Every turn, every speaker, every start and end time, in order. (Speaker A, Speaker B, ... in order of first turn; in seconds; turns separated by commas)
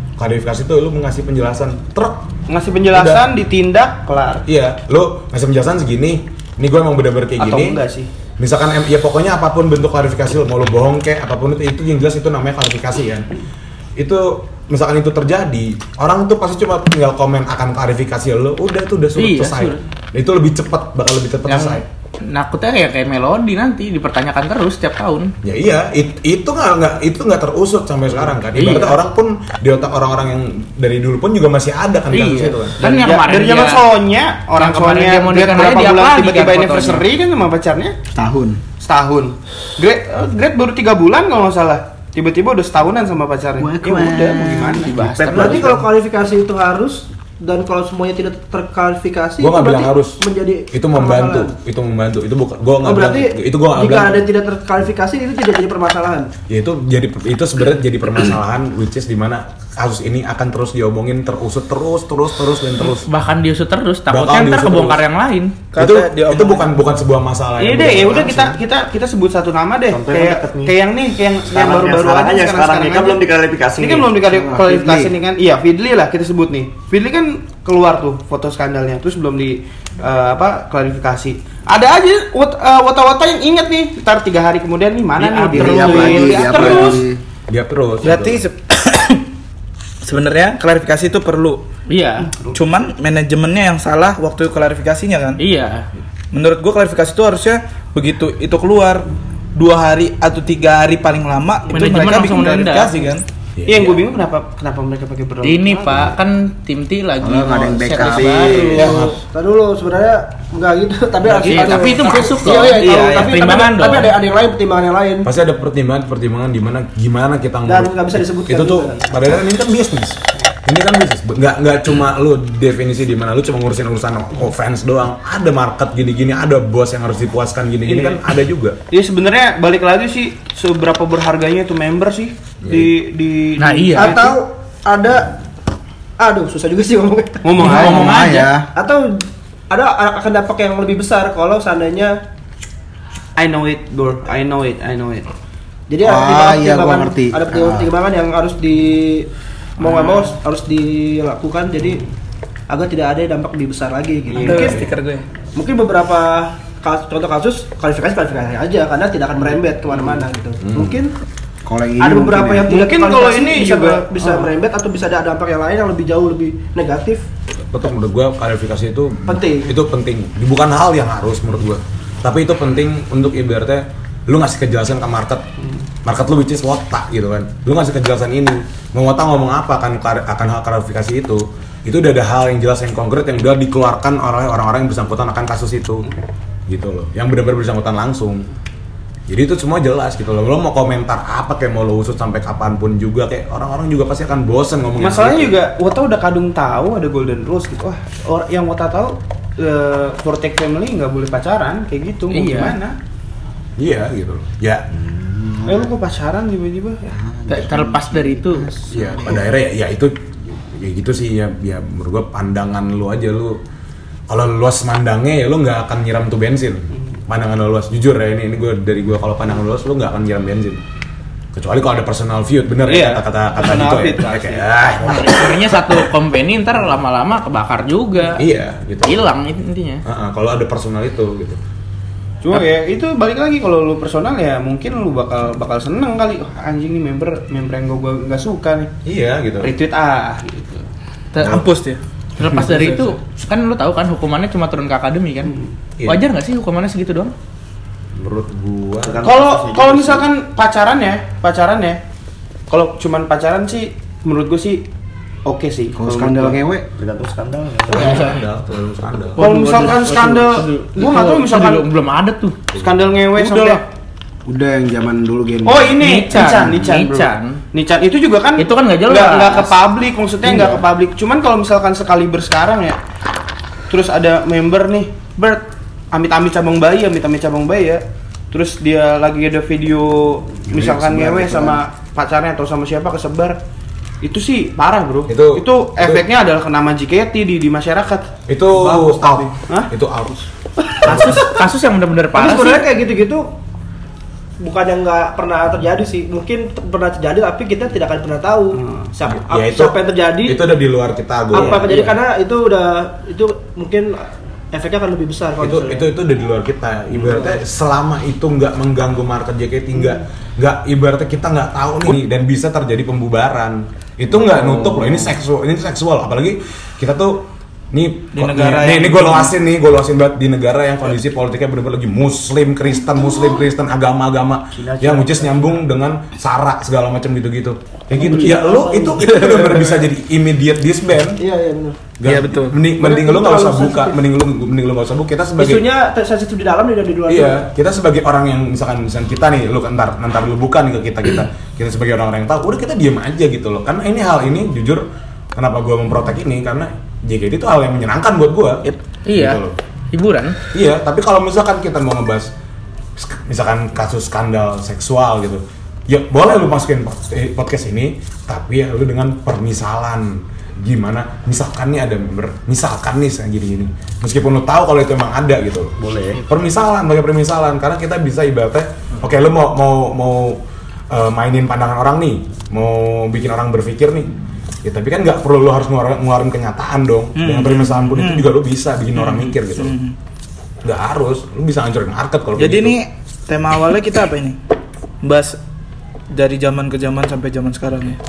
Speaker A: 0.2-2.2, Speaker B: 2.5-4.4, Speaker A: 2.9-3.2, Speaker A: 4.5-7.8, Speaker B: 7.4-8.1, Speaker A: 8.4-13.3, Speaker A: 14.0-21.9, Speaker C: 19.1-19.8, Speaker C: 21.5-25.3, Speaker A: 25.4-32.8, Speaker C: 28.5-29.0, Speaker C: 32.1-33.9, Speaker B: 32.8-38.0, Speaker C: 34.6-37.0, Speaker D: 38.1-38.6, Speaker B: 38.8-45.0, Speaker D: 43.6-44.9, Speaker C: 44.8-45.8, Speaker E: 45.2-51.5, Speaker A: 49.4-50.2, Speaker A: 50.7-54.2, Speaker E: 52.8-56.3, Speaker A: 56.5-63.1, Speaker C: 62.8-65.6, Speaker A: 64.1-65.0, Speaker F: 65.7-66.7, Speaker A: 65.8-68.6, Speaker B: 67.6-73.2, Speaker G: 69.9-70.7, Speaker G: 71.5-74.1, Speaker B: 73.8-87.0, Speaker D: 74.2-75.1, Speaker C: 85.2-86.9, Speaker D: 85.5-87.2, Speaker A: 87.5-88.4, Speaker F: 88.0-89.3, Speaker F: 90.0-91.6, Speaker C: 91.9-92.3, Speaker B: 92.3-92.6, Speaker F: 92.5-95.4, Speaker C: 95.4-95.9, Speaker F: 96.3-103.2, Speaker B: 101.7-102.6, Speaker C: 101.7-102.9, Speaker A: 103.6-104.0, Speaker B: 103.7-106.1, Speaker C: 105.4-109.1, Speaker D: 107.2-109.0, Speaker A: 108.7-109.2, Speaker E: 109.3-115.3, Speaker B: 111.3-112.0, Speaker C: 111.4-114.1, Speaker B: 112.8-113.3, Speaker A: 115.2-128.8, Speaker E: 117.7-119.0, Speaker B: 127.8-128.2, Speaker B: 128.9-134.4, Speaker A: 132.6-132.9, Speaker C: 133.6-134.2, Speaker E: 133.9-135.3, Speaker E: 136.2-137.8, Speaker B: 137.4-138.4, Speaker C: 137.6-138.5, Speaker D: 137.6-138.7, Speaker E: 138.7-142.2, Speaker B: 143.4-145.3, Speaker E: 145.9-152.1, Speaker D: 146.0-147.9, Speaker C: 149.8-150.2, Speaker E: 152.7-154.8, Speaker F: 154.4-155.2, Speaker A: 154.5-154.9, Speaker E: 155.6-161.1, Speaker A: 160.6-160.9, Speaker D: 161.7-162.7, Speaker E: 162.0-167.2, Speaker B: 162.7-164.5, Speaker A: 167.7-175.4, Speaker E: 169.3-169.7, Speaker A: 176.0-186.1, Speaker A: 186.7-188.5, Speaker A: 189.3-195.6, Speaker B: 195.0-202.9, Speaker C: 202.3-202.8, Speaker A: 203.8-204.8, Speaker D: 204.9-205.9, Speaker B: 205.7-207.1, Speaker D: 207.1-209.4, Speaker C: 207.5-208.7, Speaker A: 208.9-213.6, Speaker A: 214.3-220.8, Speaker A: 221.5-226.0, Speaker B: 222.9-224.6, Speaker C: 225.1-228.4, Speaker A: 228.3-229.2, Speaker C: 229.0-230.0, Speaker A: 230.0-231.6, Speaker B: 232.4-238.9, Speaker A: 239.0-239.7, Speaker B: 239.6-240.8, Speaker F: 241.3-243.1, Speaker C: 242.4-245.5, Speaker C: 246.1-247.3, Speaker A: 248.2-249.3, Speaker G: 249.0-250.3, Speaker B: 249.2-252.0, Speaker B: 252.7-254.8, Speaker B: 255.4-256.6, Speaker D: 255.9-256.9, Speaker G: 257.0-258.1, Speaker A: 257.9-259.5, Speaker C: 257.9-258.4, Speaker C: 259.4-262.6, Speaker B: 259.4-261.8, Speaker A: 262.7-263.1, Speaker B: 262.7-263.8, Speaker C: 263.4-263.8, Speaker D: 264.4-266.0, Speaker B: 265.6-273.0, Speaker C: 266.0-267.6, Speaker C: 268.6-269.7, Speaker C: 270.4-270.8, Speaker B: 273.9-283.6, Speaker D: 280.7-281.8, Speaker B: 284.2-288.3, Speaker A: 285.3-286.2, Speaker A: 288.5-290.4, Speaker F: 288.8-289.4, Speaker C: 291.0-292.9, Speaker A: 291.0-291.4, Speaker E: 292.3-293.5, Speaker E: 294.6-300.6, Speaker B: 298.8-299.1, Speaker A: 299.3-302.0, Speaker E: 301.5-306.1, Speaker A: 305.6-331.4, Speaker F: 318.3-319.5, Speaker G: 324.7-325.8, Speaker E: 328.2-329.8, Speaker E: 331.4-332.0, Speaker A: 332.2-335.9, Speaker F: 332.2-332.8, Speaker E: 333.0-334.2, Speaker E: 335.6-337.6, Speaker A: 337.3-345.0, Speaker A: 345.5-349.8, Speaker C: 349.2-350.6, Speaker A: 350.7-352.5, Speaker A: 353.2-374.3, Speaker G: 366.0-366.4, Speaker A: 374.8-379.9, Speaker F: 377.4-378.5, Speaker F: 379.1-380.1, Speaker A: 380.8-383.0, Speaker F: 382.6-384.6, Speaker F: 385.2-385.6, Speaker F: 386.3-388.2